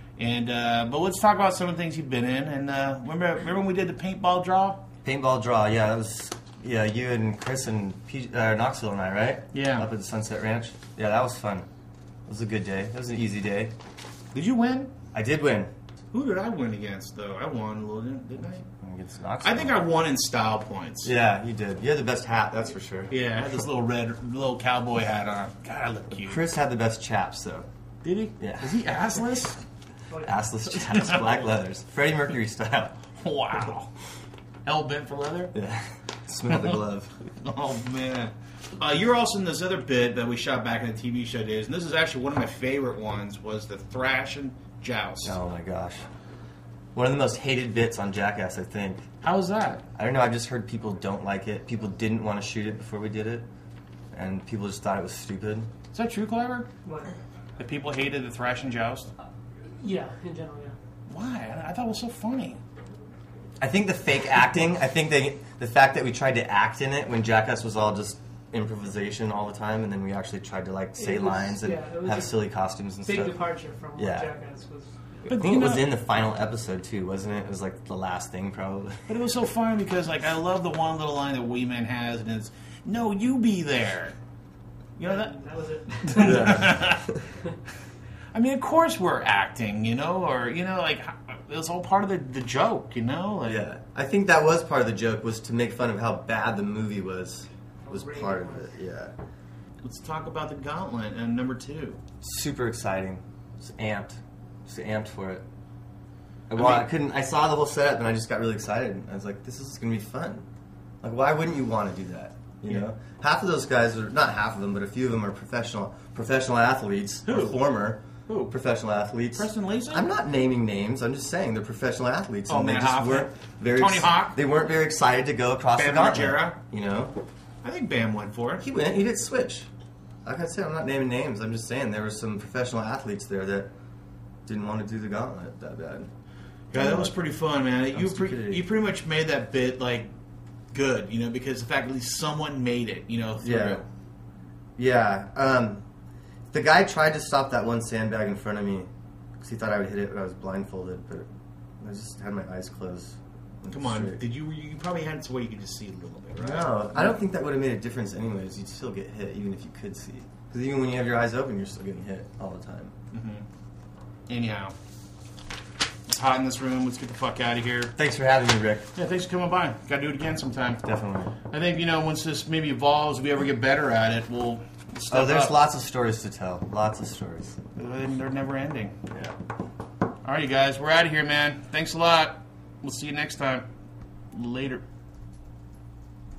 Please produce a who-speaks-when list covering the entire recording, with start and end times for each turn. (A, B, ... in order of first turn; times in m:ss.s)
0:00.2-0:04.8 A
0:05.0-0:11.6 B
0:09.5-0:09.9 A
0:12.3-0:13.7 B
0:14.3-0:14.9 A
0:15.1-0:15.7 B
0:16.1-0:18.6 A
0:18.8-0:19.8 B
0:19.4-0:21.1 A
0:21.0-0:23.1 B
0:23.1-0:26.4 A
0:26.3-0:27.7 B
0:28.0-0:29.6 A
0:28.4-0:28.7 B
0:30.1-0:30.4 C
0:30.1-0:33.0 B
0:30.7-0:31.4 A
0:33.2-0:33.9 A
0:34.6-0:35.5 A
0:35.5-0:37.2 B
0:37.3-0:45.4 A
0:45.2-0:46.0 B
0:46.9-0:49.0 B
0:49.2-0:49.8 A
0:50.0-0:53.4 B
0:54.1-0:55.7 B
0:55.9-0:56.7 A
0:56.8-0:57.1 C
0:57.6-0:59.1 A
0:59.7-1:00.8 C
1:01.1-1:02.6 A
1:03.6-1:14.3 B
1:11.0-1:12.4 C
1:13.0-1:15.3 C
1:15.3-1:15.9 A
1:15.4-1:19.1 B
1:19.1-1:24.1 A
1:25.0-1:25.4 A
1:25.0-1:26.7 C
1:26.1-1:27.1 A
1:26.1-1:27.2 B
1:28.3-1:33.6 A
1:33.5-1:39.1 B
1:37.8-1:38.7 C
1:39.8-1:42.0 A
1:42.2-1:45.4 B
1:46.5-1:50.4 B
1:46.5-1:46.9 A
1:51.0-2:07.1 B
1:57.2-1:57.6 A
1:58.3-1:58.6 A
1:59.4-2:00.1 A
2:02.5-2:04.4 A
2:05.7-2:06.6 A
2:07.6-2:08.6 A
2:08.6-2:09.7 B
2:10.2-2:13.7 B
2:14.4-2:16.1 B
2:16.7-2:20.1 A
2:16.7-2:17.3 B
2:17.9-2:18.7 B
2:20.7-2:23.9 A
2:23.4-2:23.8 B
2:24.8-2:25.8 B
2:26.5-2:28.9 B
2:29.4-2:31.3 B
2:31.8-2:34.2 B
2:33.7-2:37.2 A
2:36.4-2:42.9 B
2:43.1-2:43.4 A
2:44.3-2:44.7 A
2:46.1-2:47.9 A
2:48.0-2:48.9 B
2:48.9-2:50.8 A
2:50.8-2:51.3 B
2:51.5-2:55.6 A
2:55.1-2:57.6 B
2:57.7-2:59.0 A
3:00.2-3:03.6 A
3:04.3-3:04.8 A